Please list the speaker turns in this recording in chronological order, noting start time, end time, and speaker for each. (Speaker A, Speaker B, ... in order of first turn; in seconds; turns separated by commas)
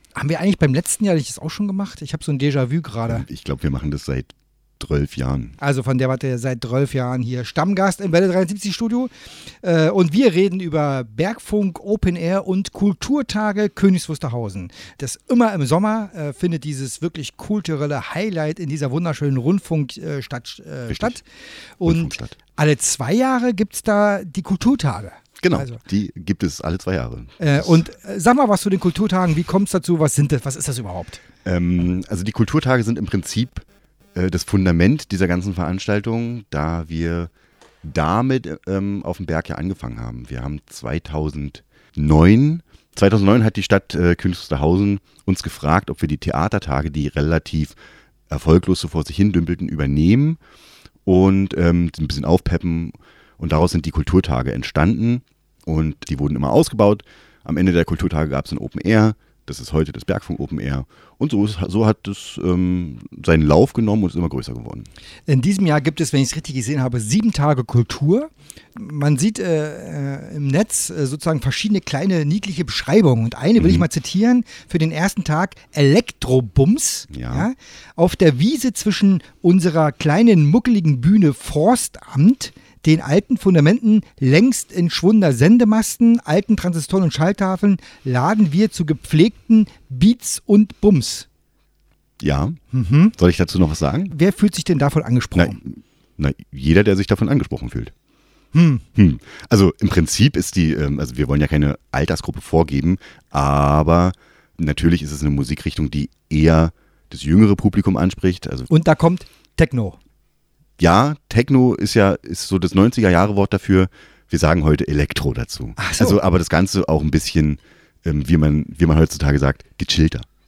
Speaker A: 0.1-3.2, Speaker B: 3.1-5.6, Speaker A: 5.6-9.1, Speaker A: 9.6-21.2, Speaker B: 20.9-21.2, Speaker A: 21.8-25.8, Speaker B: 21.8-22.4, Speaker B: 25.4-27.8, Speaker A: 27.4-31.2, Speaker B: 31.4-37.3, Speaker B: 37.8-47.8, Speaker B: 48.3-50.4, Speaker B: 51.0-64.9, Speaker A: 65.3-91.2, Speaker B: 73.6-73.9, Speaker B: 77.1-77.5, Speaker B: 92.2-92.6, Speaker A: 92.7-93.2, Speaker B: 93.2-94.1, Speaker A: 94.1-95.6, Speaker B: 95.3-97.9, Speaker A: 98.5-98.8, Speaker B: 99.0-108.7, Speaker A: 108.7-110.0, Speaker B: 110.8-120.2, Speaker A: 115.8-116.2